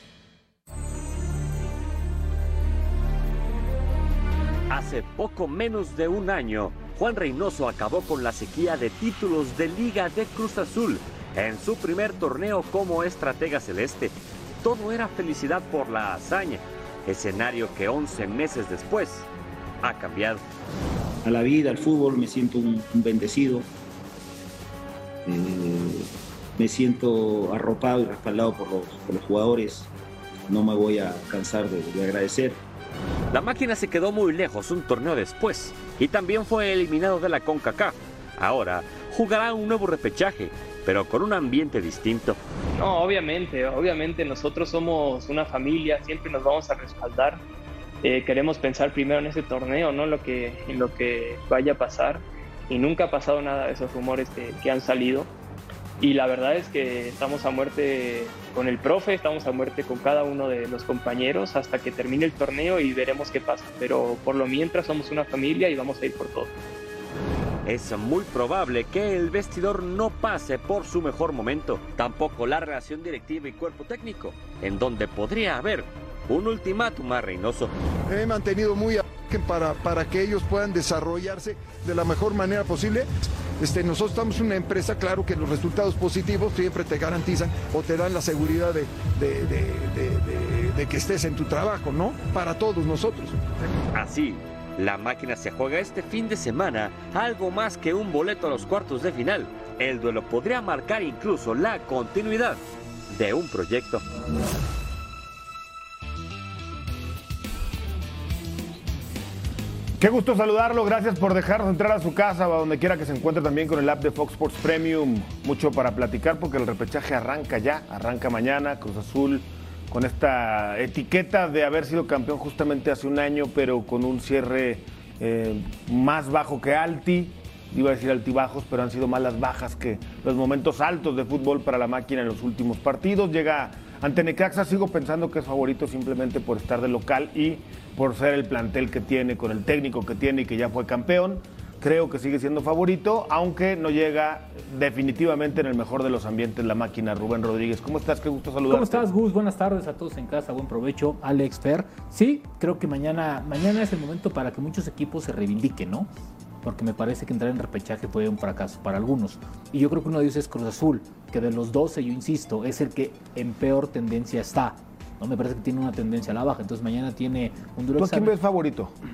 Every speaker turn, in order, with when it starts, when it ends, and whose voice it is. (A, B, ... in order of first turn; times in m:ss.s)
0:04.7-0:19.3 A
0:19.8-0:20.4 A
0:21.2-0:23.7 B
0:25.2-0:29.9 B
0:30.5-0:32.6 B
0:33.3-0:42.4 A
0:42.8-0:47.4 C
0:48.0-0:55.3 C
0:56.0-1:06.5 C
1:07.6-1:17.7 A
1:18.1-1:23.1 D
1:23.6-1:33.4 D
1:33.9-1:44.0 A
1:50.0-2:29.0 E
2:28.7-2:36.1 F
2:36.6-2:48.3 F
2:48.0-2:48.9 E